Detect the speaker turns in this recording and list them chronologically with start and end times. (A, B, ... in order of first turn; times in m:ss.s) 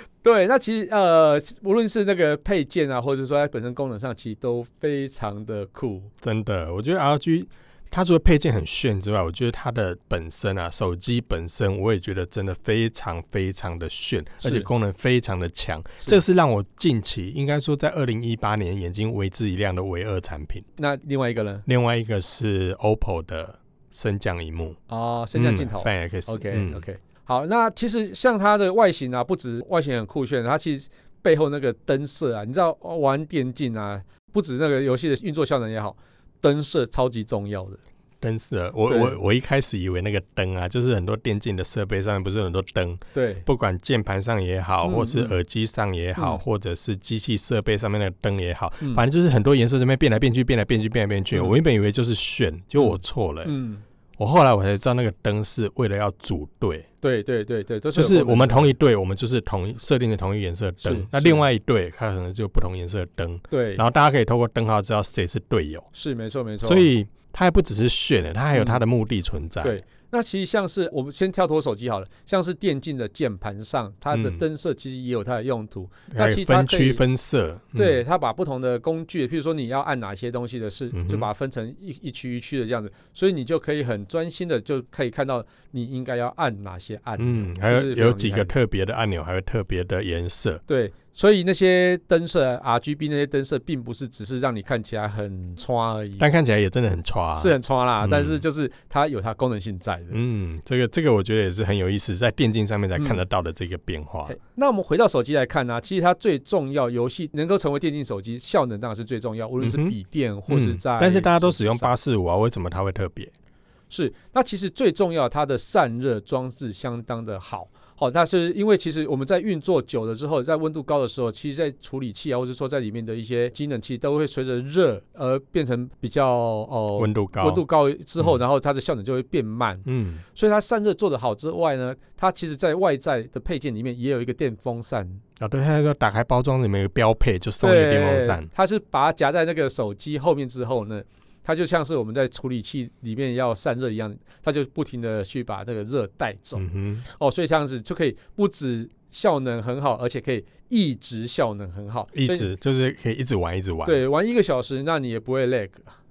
0:00.2-0:06.1 A
0:06.2-0:20.6 B
0:14.4-0:14.7 A
0:20.8-0:21.6 A
0:21.6-0:24.8 B
0:24.9-0:37.8 A
0:25.3-0:26.8 B
0:38.2-0:53.5 B
0:38.9-0:39.2 A
0:43.1-0:43.4 A
0:44.8-0:45.3 A
0:52.8-0:53.8 A
0:54.2-0:56.9 B
0:57.0-0:58.7 A
0:57.9-1:05.9 B
1:00.8-1:01.4 A
1:03.5-1:03.8 A
1:05.9-1:06.9 A
1:06.6-1:09.8 B
1:08.5-1:08.8 A
1:09.6-1:17.0 A
1:14.1-1:14.4 B
1:16.1-1:18.0 B
1:17.7-1:28.5 A
1:20.9-1:21.3 B
1:27.2-1:30.6 B
1:30.7-1:36.3 A
1:36.2-1:38.4 B
1:37.4-1:40.2 A
1:40.1-1:44.3 B
1:44.3-1:51.9 A
1:49.6-1:49.9 B
1:50.5-1:53.3 B
1:53.9-2:15.2 A
2:07.0-2:07.6 B
2:09.8-2:10.2 B
2:15.4-2:18.5 B
2:17.6-2:32.5 A
2:26.6-2:27.0 B
2:32.1-2:34.0 B
2:33.8-2:35.9 A